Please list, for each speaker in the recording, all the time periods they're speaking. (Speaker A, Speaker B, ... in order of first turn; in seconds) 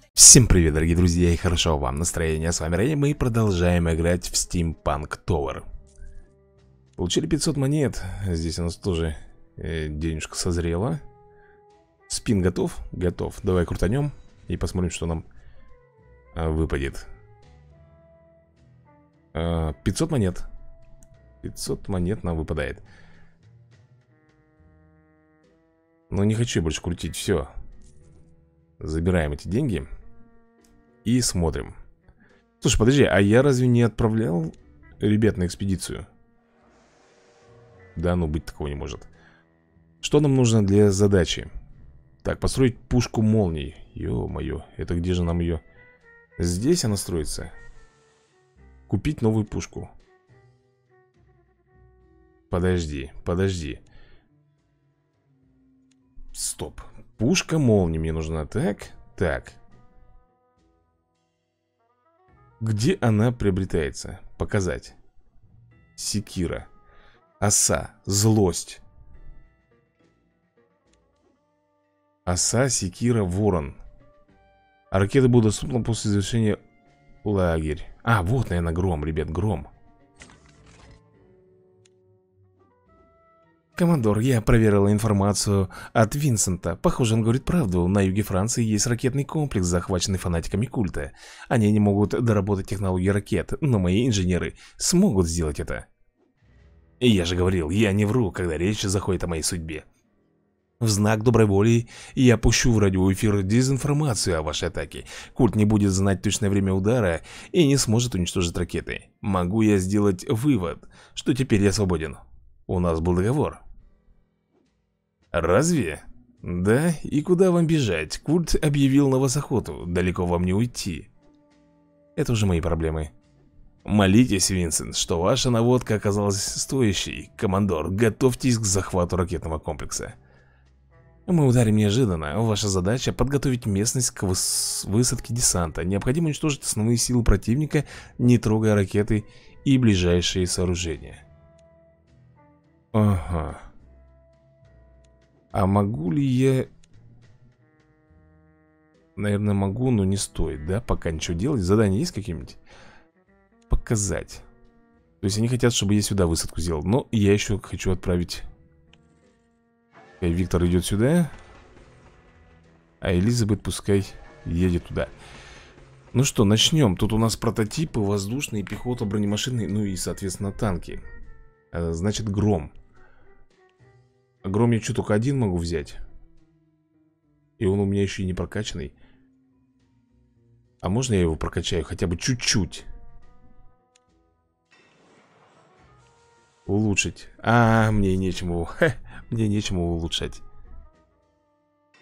Speaker A: 0.1-5.7, 7.0-11.0, 12.1-15.2, 16.3-17.1, 19.3-20.5, 21.4-22.8, 26.1-27.5, 28.8-29.9, 31.0-31.8, 32.6-36.1, 38.0-39.1, 40.0-41.5, 42.2-45.6, 46.4-47.5, 48.9-49.9, 52.5-53.8, 56.3-59.6, 62.6-65.0, 66.0-66.7, 67.4-68.8, 72.3-73.8, 74.9-76.6, 77.2-79.7, 83.8-95.9, 97.0-99.9, 100.8-113.6, 115.3-121.1, 122.2-123.1, 123.8-130.2, 131.3-141.2, 142.9-143.7, 145.5-146.7, 149.2-152.6, 153.7-154.4, 155.2-158.5, 160.2-161.3, 163.0-165.1, 166.1-171.0, 171.7-172.7, 174.4-176.0, 177.6-178.9, 180.8-182.9, 186.7-190.4